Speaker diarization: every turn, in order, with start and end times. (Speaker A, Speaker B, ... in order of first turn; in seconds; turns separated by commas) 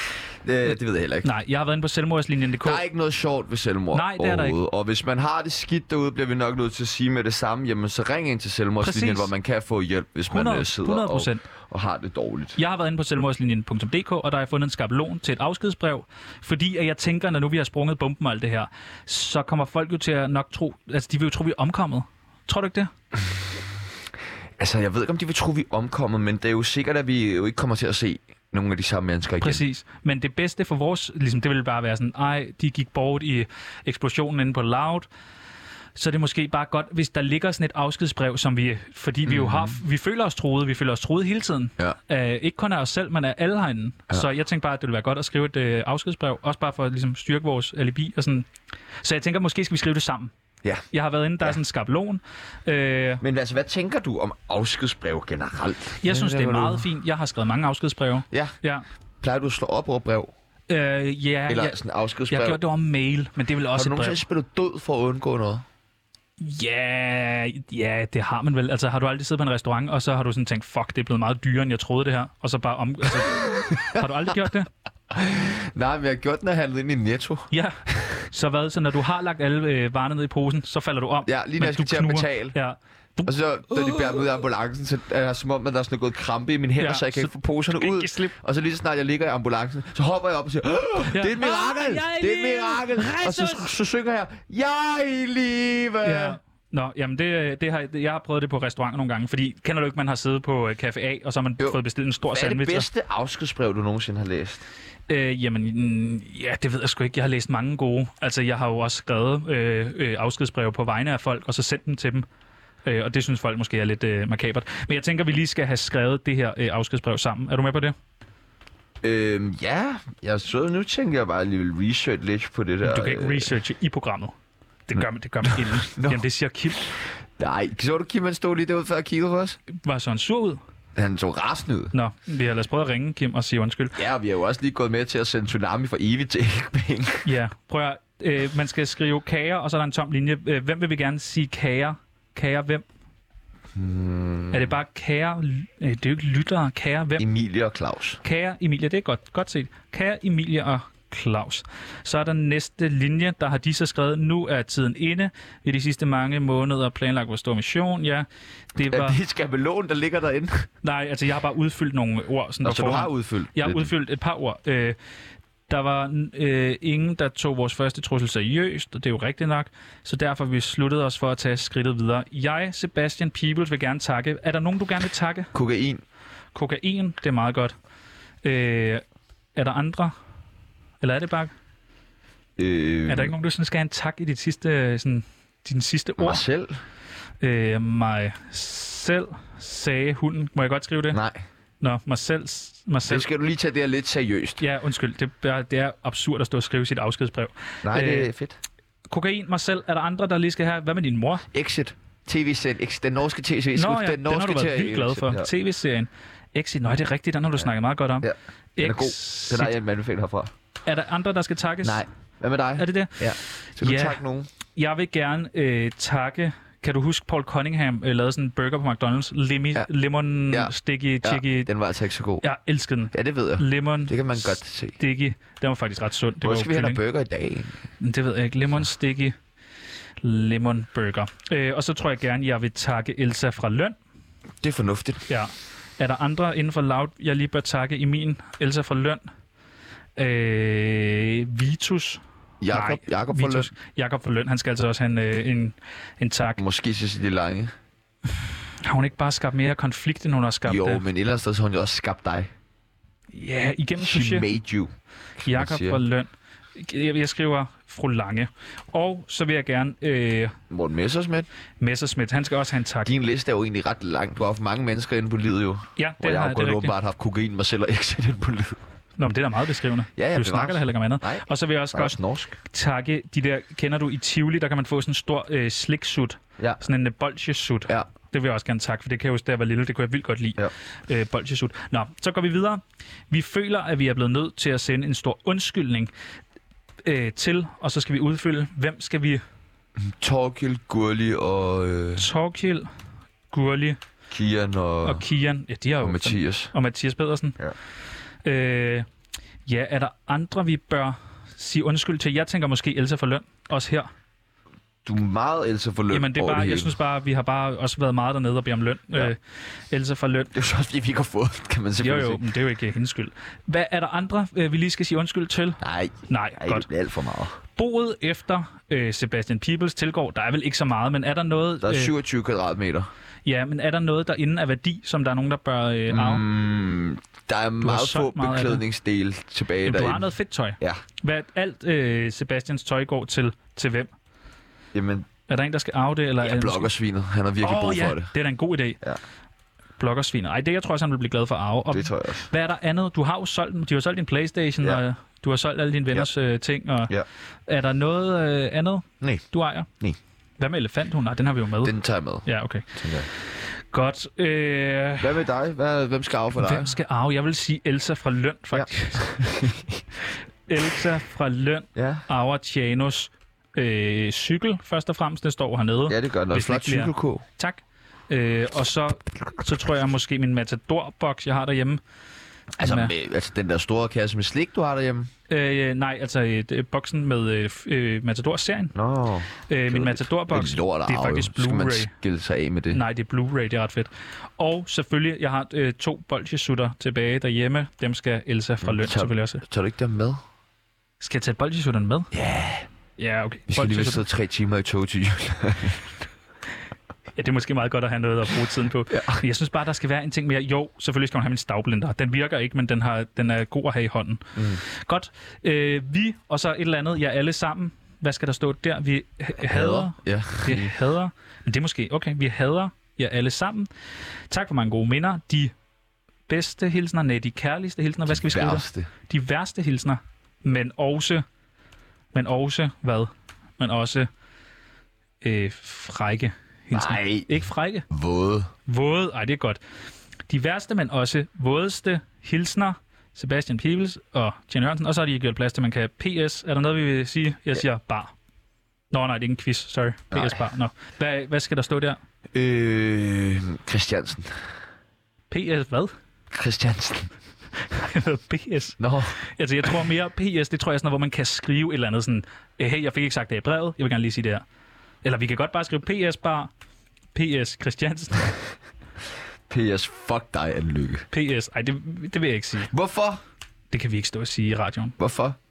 Speaker A: 0.4-1.3, Speaker B: 1.2-2.8, Speaker A: 2.6-12.6, Speaker B: 3.9-4.6, Speaker B: 8.8-9.3, Speaker B: 10.3-11.4, Speaker B: 12.6-22.9, Speaker A: 23.1-23.6, Speaker A: 24.6-29.6, Speaker B: 29.4-35.1, Speaker B: 35.9-48.5, Speaker A: 39.3-39.8, Speaker B: 49.0-50.3, Speaker B: 50.9-53.2, Speaker A: 53.2-56.9, Speaker B: 56.0-58.9, Speaker A: 59.2-60.3, Speaker B: 60.7-61.8, Speaker A: 61.5-62.6, Speaker B: 62.3-64.2, Speaker A: 63.7-65.6, Speaker B: 66.4-74.7, Speaker A: 73.2-74.3, Speaker A: 75.1-78.2, Speaker B: 77.5-84.2, Speaker A: 81.2-82.6, Speaker A: 83.3-96.4, Speaker B: 86.8-88.3, Speaker B: 91.0-93.7, Speaker B: 96.0-102.9, Speaker A: 101.6-104.6, Speaker B: 105.1-112.3, Speaker B: 112.8-117.9, Speaker A: 119.0-123.6, Speaker B: 122.8-124.3, Speaker B: 124.9-126.9, Speaker A: 125.0-126.2, Speaker A: 127.4-129.6, Speaker B: 129.7-130.6, Speaker A: 130.9-131.9, Speaker B: 131.9-134.0, Speaker A: 133.9-137.3, Speaker B: 137.2-142.8, Speaker A: 143.7-144.8, Speaker B: 144.5-147.3, Speaker A: 147.2-148.2, Speaker B: 148.2-159.2, Speaker A: 158.8-160.7, Speaker B: 160.8-165.0, Speaker A: 162.6-163.9, Speaker B: 165.7-175.5, Speaker A: 175.5-176.0, Speaker B: 176.6-177.7, Speaker B: 178.4-179.0, Speaker B: 179.6-180.1, Speaker B: 181.0-181.5, Speaker A: 182.6-183.3, Speaker B: 183.1-186.4, Speaker A: 186.2-186.8, Speaker B: 187.4-191.2, Speaker A: 191.1-191.4, Speaker B: 191.8-193.3, Speaker A: 193.1-194.6, Speaker B: 194.6-198.3, Speaker A: 197.8-198.6, Speaker B: 199.1-201.4, Speaker A: 201.5-205.5, Speaker B: 203.8-209.8, Speaker A: 208.2-210.5, Speaker B: 210.9-212.1, Speaker A: 211.8-214.5, Speaker B: 212.8-214.2, Speaker B: 214.7-221.7, Speaker A: 220.5-222.4, Speaker B: 222.4-227.0, Speaker A: 223.1-225.0, Speaker A: 226.4-227.9, Speaker B: 228.0-229.4, Speaker B: 230.2-233.9, Speaker A: 234.6-235.2, Speaker B: 235.3-239.2, Speaker B: 240.2-246.6, Speaker A: 242.6-243.7, Speaker A: 246.6-247.7, Speaker B: 248.8-251.0, Speaker A: 250.6-252.5, Speaker B: 253.3-254.5, Speaker A: 254.0-256.0, Speaker B: 255.4-260.6, Speaker A: 260.7-261.5, Speaker B: 261.8-263.1, Speaker A: 263.0-268.8, Speaker B: 265.9-266.9, Speaker B: 269.2-286.1, Speaker A: 270.1-272.6, Speaker B: 287.1-289.4, Speaker A: 290.0-292.3, Speaker B: 292.2-292.9, Speaker B: 293.5-294.0, Speaker A: 294.3-295.2, Speaker B: 295.0-297.6, Speaker A: 296.0-296.7, Speaker B: 298.4-299.1, Speaker B: 299.6-304.1, Speaker A: 305.1-307.0, Speaker B: 306.1-310.5, Speaker A: 310.5-312.4, Speaker B: 312.0-316.9, Speaker A: 315.8-317.6, Speaker B: 317.8-322.1, Speaker A: 321.8-323.1, Speaker B: 323.4-326.4, Speaker A: 326.1-331.0, Speaker B: 327.8-328.8, Speaker B: 329.8-334.1, Speaker A: 334.9-335.3, Speaker B: 335.5-336.9, Speaker A: 336.4-338.3, Speaker B: 337.6-339.0, Speaker B: 340.0-347.1, Speaker A: 341.9-342.5, Speaker B: 347.7-349.9, Speaker A: 349.2-349.4, Speaker B: 350.6-351.9, Speaker A: 351.8-353.3, Speaker B: 352.4-355.4, Speaker A: 355.2-357.0, Speaker B: 356.6-359.6, Speaker A: 358.7-360.0, Speaker B: 360.7-372.0, Speaker A: 361.9-362.3, Speaker A: 366.1-367.4, Speaker A: 372.8-375.3, Speaker B: 372.8-373.1, Speaker B: 375.5-378.9, Speaker A: 378.9-383.0, Speaker B: 379.7-382.1, Speaker B: 382.9-389.6, Speaker A: 388.8-390.4, Speaker B: 391.2-392.3, Speaker A: 392.3-392.9, Speaker B: 393.2-394.2, Speaker A: 393.7-396.2, Speaker B: 397.3-413.9, Speaker A: 399.1-399.4, Speaker A: 404.6-404.8, Speaker A: 409.6-410.9, Speaker B: 414.5-415.7, Speaker B: 416.5-421.4, Speaker A: 418.3-419.1, Speaker B: 422.3-424.3, Speaker B: 425.4-428.1, Speaker A: 426.9-427.6, Speaker A: 428.1-428.7, Speaker B: 428.9-429.8, Speaker B: 430.5-438.3, Speaker B: 439.1-442.2, Speaker A: 440.3-440.6, Speaker A: 442.5-444.7, Speaker B: 445.5-446.1, Speaker A: 446.5-447.3, Speaker B: 447.9-454.6, Speaker A: 449.0-449.4, Speaker B: 455.2-456.7, Speaker B: 457.3-458.5, Speaker A: 459.7-461.3, Speaker B: 461.3-462.9, Speaker A: 462.9-463.4, Speaker B: 463.9-465.1, Speaker A: 465.2-465.6